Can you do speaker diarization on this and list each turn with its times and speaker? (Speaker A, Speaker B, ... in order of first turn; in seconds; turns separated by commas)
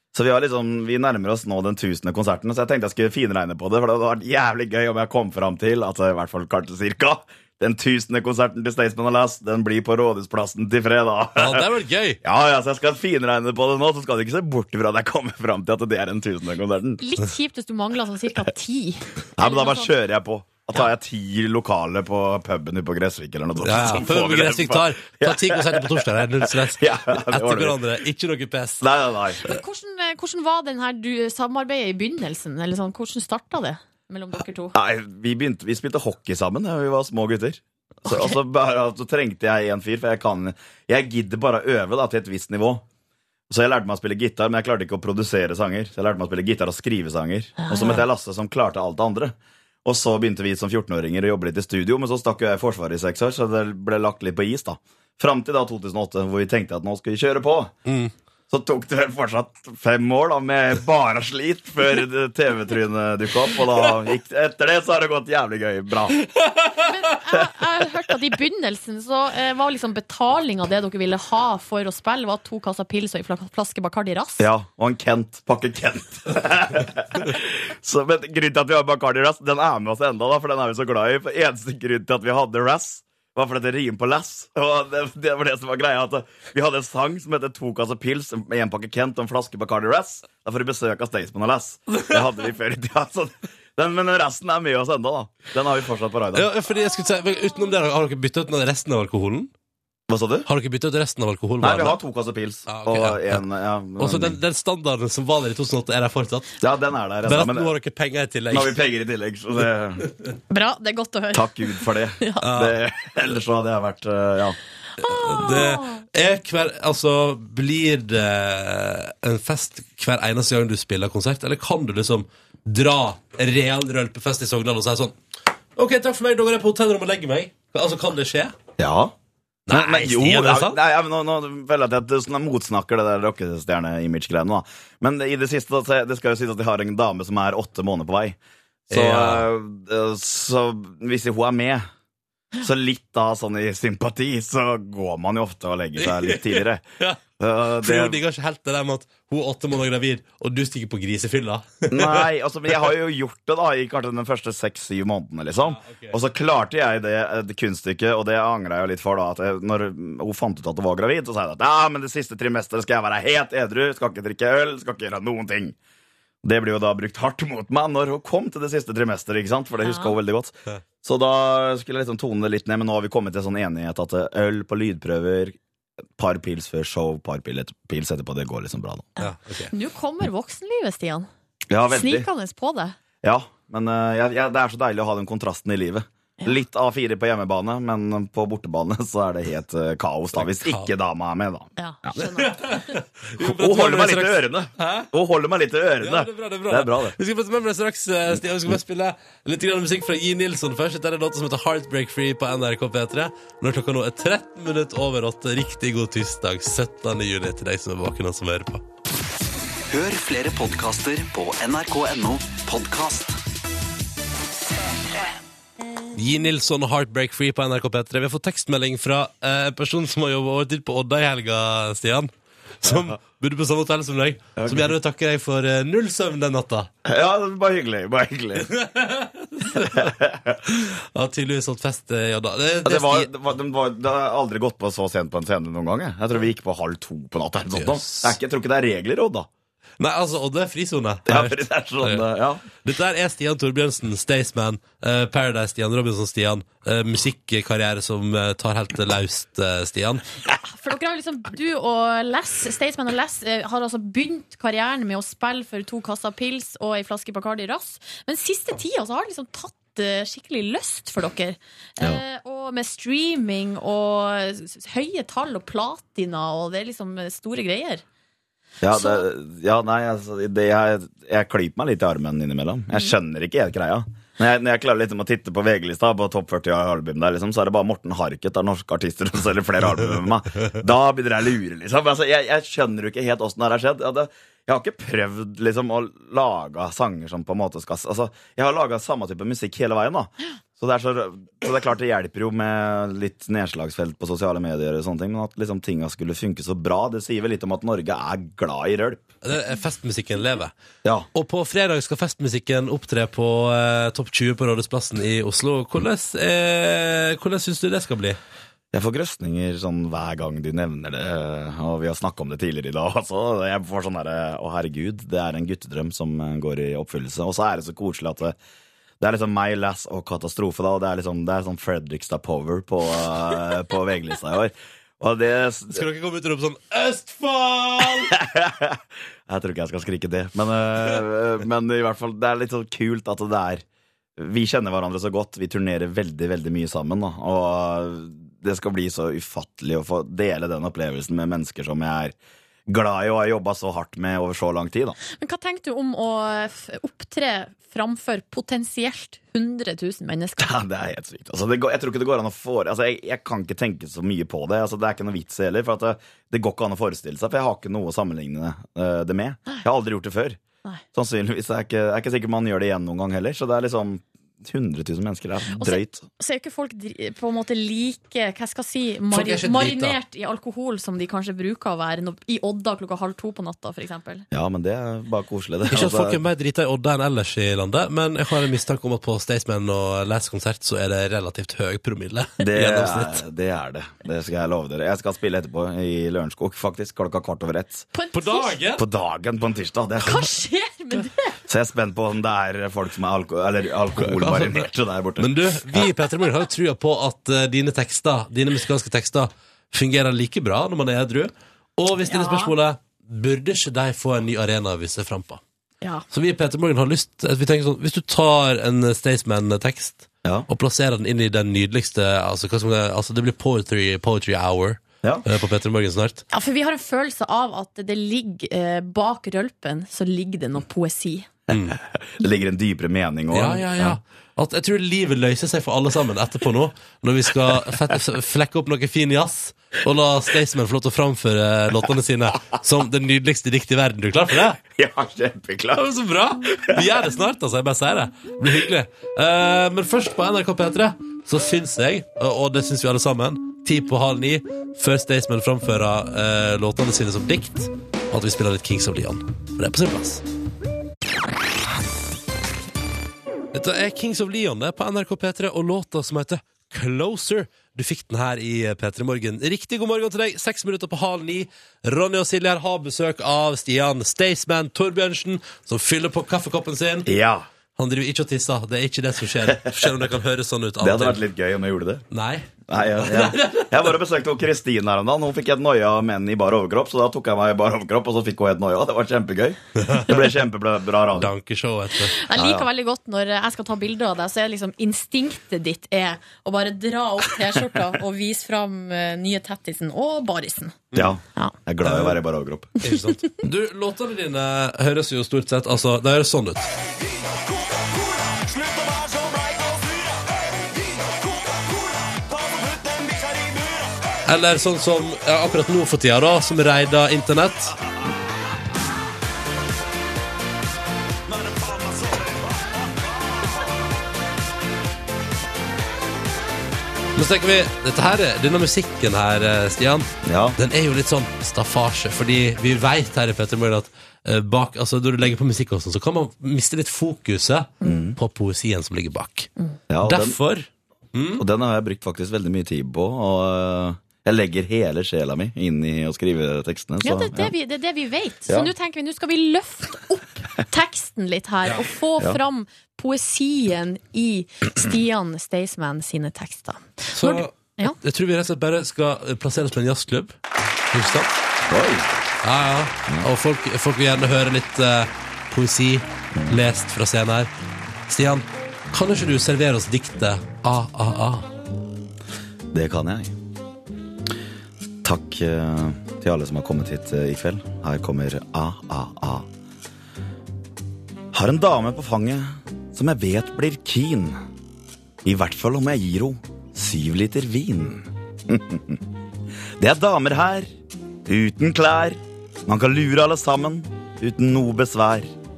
Speaker A: 0.1-11.7, Speaker B: 11.4-12.2, Speaker A: 12.2-17.0, Speaker C: 17.0-19.9, Speaker A: 19.4-27.8, Speaker B: 23.6-28.8, Speaker A: 28.8-29.4, Speaker C: 29.4-34.8, Speaker A: 34.7-42.8, Speaker C: 38.0-38.4, Speaker A: 43.5-57.7, Speaker C: 47.6-48.0, Speaker B: 57.9-58.1, Speaker A: 58.5-66.2, Speaker B: 66.3-66.8, Speaker C: 66.8-74.5, Speaker A: 74.4-96.5, Speaker B: 96.3-99.5, Speaker A: 100.1-100.5, Speaker B: 100.5-102.0, Speaker A: 101.6-104.4, Speaker B: 102.7-103.4, Speaker B: 104.0-106.5, Speaker A: 106.6-107.7, Speaker B: 107.2-108.8, Speaker A: 108.5-110.1, Speaker C: 110.5-112.4, Speaker A: 111.3-114.6, Speaker B: 112.4-112.8, Speaker C: 115.0-116.0, Speaker B: 115.0-125.2, Speaker B: 125.8-128.6, Speaker A: 128.8-129.1, Speaker B: 129.7-130.8, Speaker A: 129.7-141.8, Speaker B: 138.9-139.5, Speaker A: 142.6-146.8, Speaker B: 146.0-147.2, Speaker A: 147.4-148.2, Speaker B: 147.8-152.2, Speaker A: 151.9-165.8, Speaker B: 155.6-156.2, Speaker A: 166.4-175.6, Speaker C: 169.8-170.1, Speaker A: 176.2-179.1, Speaker C: 179.2-181.3, Speaker B: 179.2-179.7, Speaker A: 181.7-182.3, Speaker C: 181.9-182.9, Speaker A: 183.2-192.2, Speaker B: 190.4-190.9, Speaker C: 191.8-192.8, Speaker B: 192.2-195.1, Speaker A: 193.4-197.2, Speaker B: 196.0-208.8, Speaker D: 209.9-213.3, Speaker B: 216.1-226.9, Speaker A: 222.8-223.2, Speaker A: 224.6-225.0, Speaker A: 227.0-228.7, Speaker B: 228.6-233.3, Speaker A: 229.8-230.6, Speaker A: 232.8-239.5, Speaker B: 237.7-238.4, Speaker B: 240.0-250.2, Speaker A: 241.3-242.7, Speaker C: 250.6-268.0, Speaker A: 268.8-299.2, Speaker C: 268.9-269.2, Speaker B: 299.4-300.7, Speaker B: 301.3-308.4, Speaker A: 308.9-318.5, Speaker A: 319.2-326.0, Speaker B: 325.9-328.3, Speaker A: 328.0-333.8, Speaker A: 334.4-342.3, Speaker A: 342.9-345.1, Speaker C: 345.3-350.7, Speaker A: 350.6-360.6, Speaker A: 361.1-366.2, Speaker C: 365.8-374.4, Speaker B: 369.3-370.2, Speaker A: 374.5-376.4, Speaker B: 375.9-383.4, Speaker A: 382.6-388.1, Speaker C: 388.1-388.8, Speaker B: 388.3-389.0, Speaker A: 388.9-390.4, Speaker C: 390.2-391.5, Speaker A: 391.7-396.1, Speaker B: 394.1-405.6, Speaker C: 402.2-402.7, Speaker B: 406.3-416.4, Speaker C: 416.5-421.5, Speaker B: 421.7-421.9, Speaker A: 421.7-424.2, Speaker B: 423.5-434.8, Speaker A: 434.8-436.0, Speaker B: 435.9-450.4, Speaker A: 436.7-437.2, Speaker B: 453.7-467.3, Speaker A: 467.2-467.7, Speaker B: 467.9-471.4, Speaker A: 469.6-470.1, Speaker A: 471.0-472.2, Speaker B: 472.3-474.1, Speaker A: 472.9-481.5, Speaker B: 480.0-480.4, Speaker B: 481.4-482.4, Speaker C: 482.3-491.0, Speaker A: 482.5-482.9, Speaker A: 491.1-493.0, Speaker B: 492.0-492.4, Speaker B: 493.0-496.9, Speaker A: 502.6-503.7, Speaker B: 504.4-507.9, Speaker A: 511.6-512.6, Speaker B: 517.3-529.7, Speaker A: 520.4-520.8, Speaker A: 528.0-528.4, Speaker A: 530.1-530.6, Speaker B: 530.2-531.6, Speaker A: 531.6-537.7, Speaker C: 537.2-548.2, Speaker B: 547.3-550.5, Speaker B: 551.1-551.5, Speaker A: 551.9-552.2, Speaker B: 552.6-557.7, Speaker B: 558.3-561.7, Speaker A: 562.9-563.5, Speaker A: 565.2-569.6, Speaker A: 571.5-574.6, Speaker A: 575.4-579.2, Speaker A: 580.0-580.9, Speaker A: 581.5-585.5